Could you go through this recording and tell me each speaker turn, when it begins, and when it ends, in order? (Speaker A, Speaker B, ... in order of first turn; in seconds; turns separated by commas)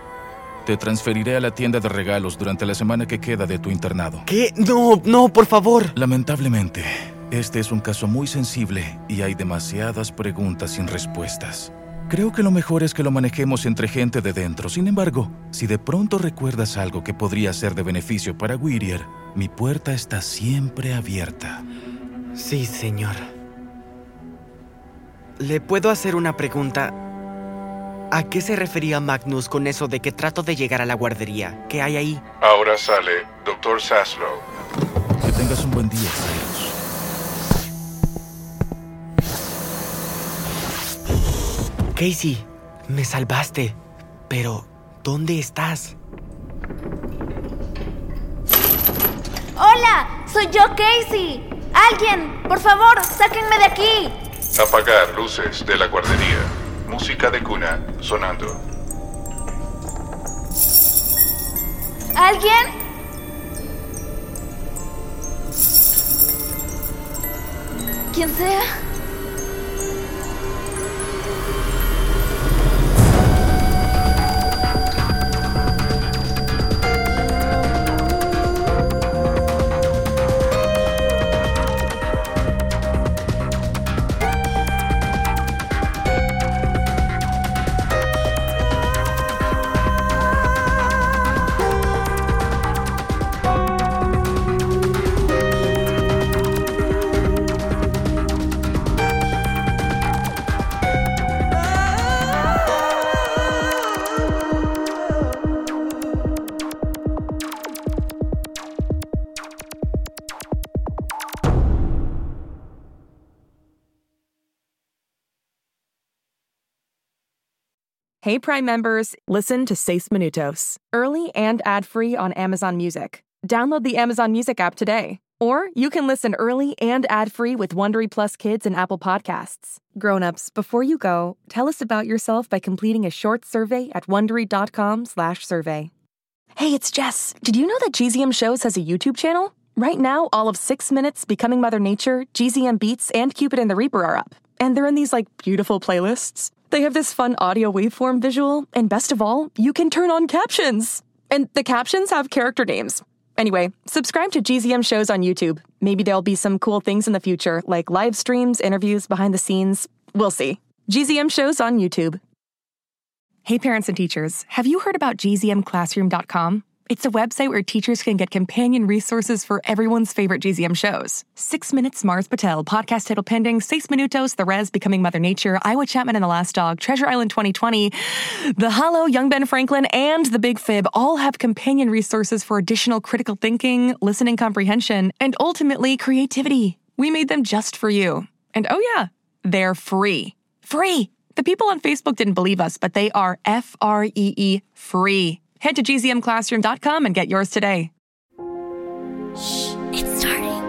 Speaker A: 0.7-4.3, Speaker B: 4.3-5.9, Speaker A: 6.0-21.6, Speaker B: 22.4-23.2, Speaker B: 25.4-26.9, Speaker B: 28.1-32.2, Speaker C: 32.4-34.5, Speaker A: 35.2-36.8, Speaker B: 42.0-43.8, Speaker B: 44.3-45.9, Speaker D: 49.6-54.1, Speaker C: 54.6-58.6, Speaker D: 62.2-62.5, Speaker D: 68.1-68.6, Speaker E: 118.2-135.9, Speaker E: 136.6-162.2, Speaker E: 163.4-197.9